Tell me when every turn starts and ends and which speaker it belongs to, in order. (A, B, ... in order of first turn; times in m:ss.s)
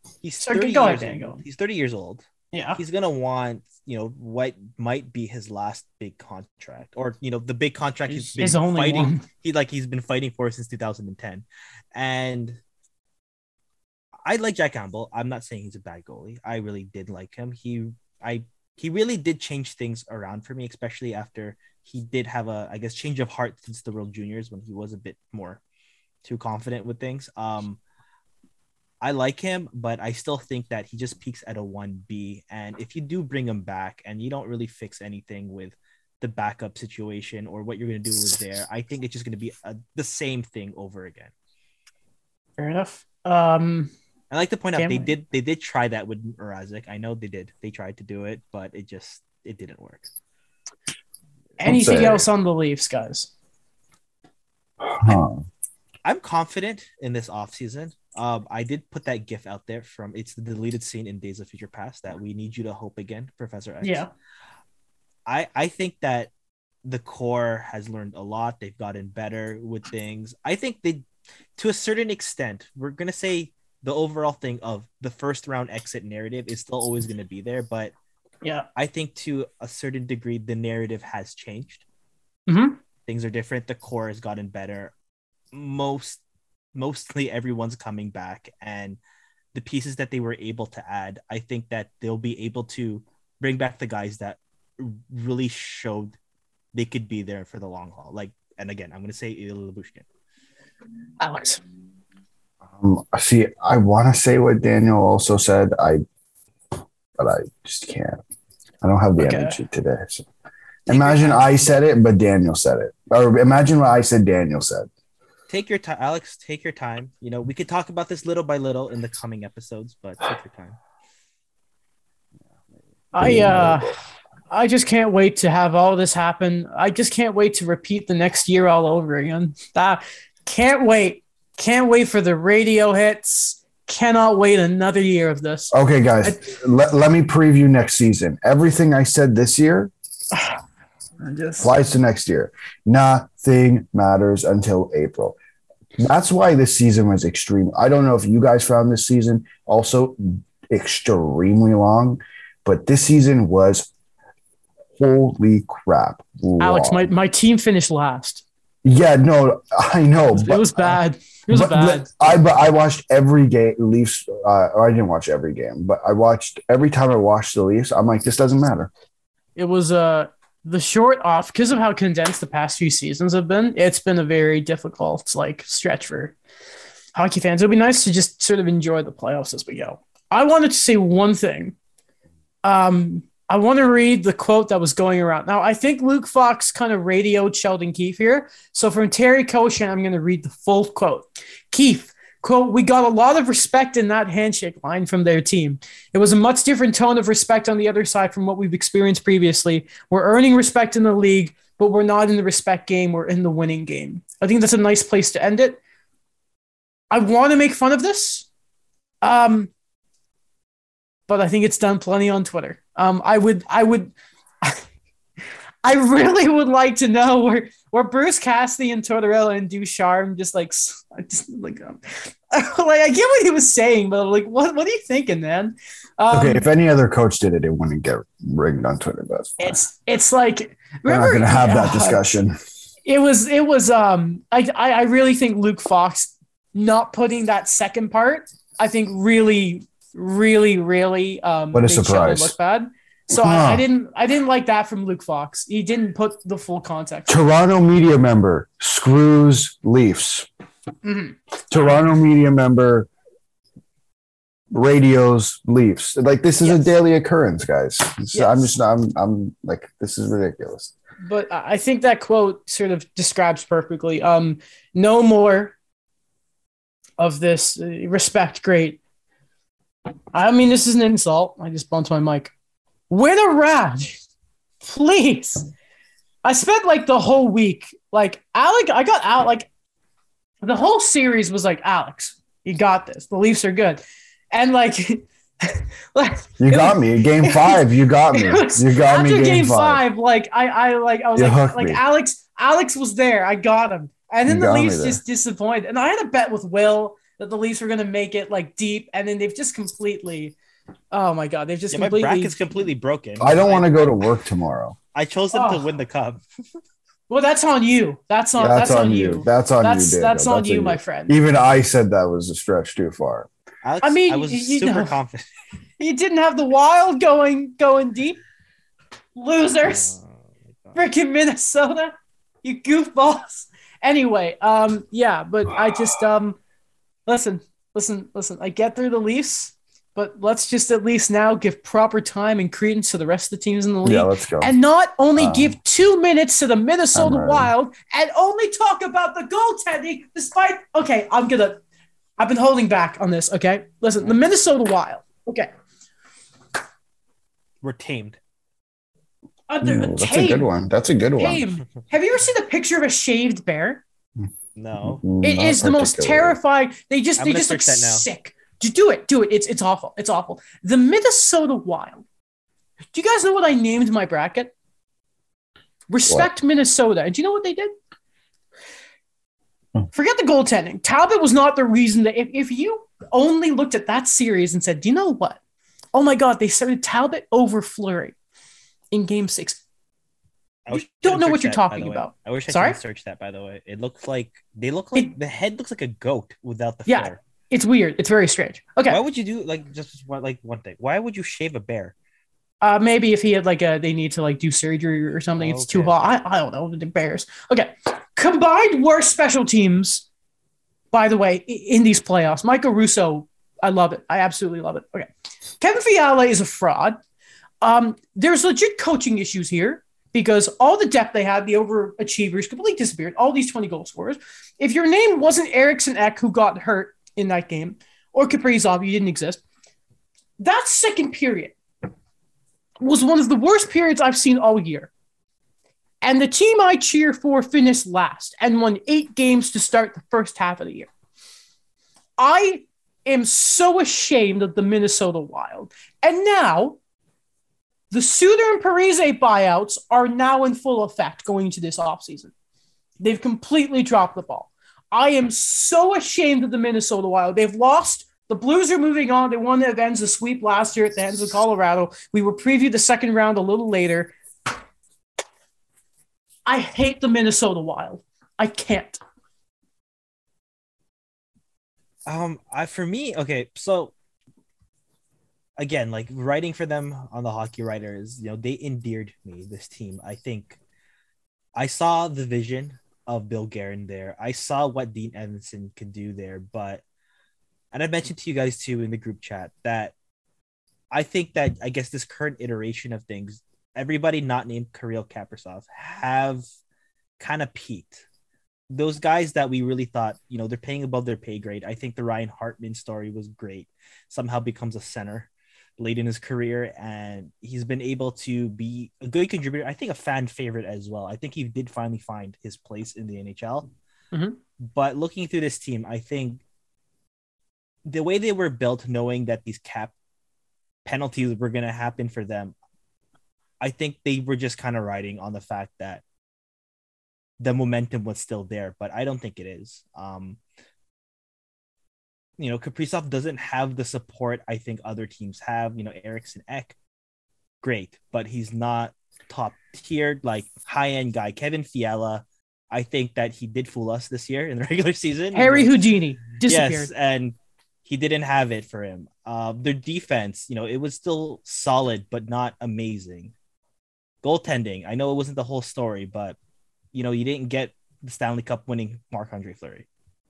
0:00.2-0:02.3 A
0:00.4-0:01.4 B
0:02.5-0:02.8 B
0:02.8-0:12.6 A
0:08.1-0:09.2 B
0:14.2-0:25.6 A
0:26.2-0:27.8 A
0:29.0-0:41.3 A
0:42.6-0:43.9 B
0:44.3-0:50.1 A
0:44.8-0:45.1 B
0:51.6-0:53.3 B
0:51.6-0:52.2 C
0:54.8-0:55.4 C
0:56.0-1:04.0 A
1:03.8-1:04.1 B
1:05.3-1:06.3 A
1:06.8-1:11.1 A
1:11.6-1:17.9 A
1:18.8-1:21.8 A
1:22.5-1:22.8 B
1:23.1-1:24.9 A
1:25.5-1:26.2 A
1:26.8-1:29.0 A
1:29.5-1:36.2 A
1:36.7-1:40.0 A
1:41.2-1:41.6 B
1:42.8-1:46.0 C
1:47.2-1:48.2 C
1:48.8-1:50.3 C
1:49.2-1:49.6 B
1:50.9-1:51.5 B
1:50.9-1:54.9 C
1:55.5-2:00.8 A
2:03.1-2:04.0 B
2:03.2-2:04.0 C
2:04.5-2:16.4 B
2:15.7-2:19.9 C
2:21.2-2:21.7 B
2:21.6-2:25.4 C
2:26.0-2:33.9 C
2:35.0-2:37.1 C
2:36.6-2:38.4 B
2:38.8-2:48.9 C
2:40.4-2:42.1 B
2:49.6-2:56.4 B
2:57.2-3:01.8 B
3:02.6-3:25.8 B
3:27.1-3:28.5 B
3:29.2-3:29.7 B
3:31.3-3:34.8 B
3:35.8-3:46.7 B
3:46.3-3:49.8 C
3:49.6-3:52.2 B
3:51.1-3:52.5 C
3:53.1-4:07.3 B
4:01.7-4:02.5 C
4:03.3-4:03.8 C
4:07.3-4:10.5 C
4:11.0-4:12.0 B
4:11.7-4:13.1 C
4:14.7-4:20.9 C
4:16.6-4:16.9 B
4:18.3-4:18.7 B
4:21.2-4:25.8 B
4:27.2-4:29.0 B
4:30.3-4:32.5 B
4:33.1-4:34.2 B
4:34.8-4:35.7 B
4:36.4-4:39.7 B
4:40.6-5:00.6 B
4:46.6-4:50.0 C
4:51.4-4:52.0 C
4:54.5-4:55.2 C
5:01.1-5:02.6 B
5:01.9-5:04.2 A
5:03.4-5:05.0 C
5:05.1-5:06.4 A
5:05.5-5:05.8 B
5:07.3-5:11.4 B
5:08.6-5:13.5 C
5:13.8-5:15.5 A
5:14.0-5:15.1 B
5:16.0-5:18.4 B
5:19.4-5:20.1 B
5:19.8-5:21.0 A
5:21.0-5:26.6 B
5:27.3-5:41.8 B
5:34.0-5:34.7 C
5:35.4-5:35.8 C
5:37.2-5:37.7 C
5:42.4-5:45.7 B
5:47.8-5:48.4 A
5:49.7-5:50.7 B
5:49.8-5:51.6 C
5:51.4-5:54.0 B
5:54.8-5:55.2 A
5:55.0-5:56.6 C
5:55.4-6:02.2 B
5:57.4-5:58.3 A
6:03.1-6:04.7 B
6:06.1-6:07.9 B
6:10.1-6:15.6 B
6:16.1-6:18.4 B
6:19.1-6:19.8 B
6:20.9-6:27.4 A
6:20.9-6:23.0 B
6:27.1-6:29.2 B
6:29.1-6:32.1 A
6:32.8-6:40.3 B
6:35.6-6:36.4 A
6:41.1-6:47.2 B
6:47.8-6:59.6 B
7:00.6-7:01.8 B
7:03.0-7:05.1 B
7:06.2-7:11.1 B
7:12.4-7:17.0 B
7:18.1-7:22.5 B
7:23.2-7:34.3 B
7:36.7-7:39.2 B
7:42.3-7:44.1 A
7:45.8-7:50.8 A
7:51.8-7:57.0 A
7:57.9-8:00.1 A
8:01.1-8:06.6 A
8:07.4-8:08.3 A
8:08.9-8:23.9 A
8:24.3-8:24.6 B
8:24.9-8:26.6 A
8:28.1-8:30.1 A
8:31.0-8:32.7 A
8:33.8-8:36.2 A
8:37.6-8:40.6 A
8:42.6-8:47.0 A
8:47.8-8:56.0 A
8:55.5-8:57.1 B
8:56.6-9:03.5 A
9:04.4-9:06.6 A
9:07.1-9:10.1 A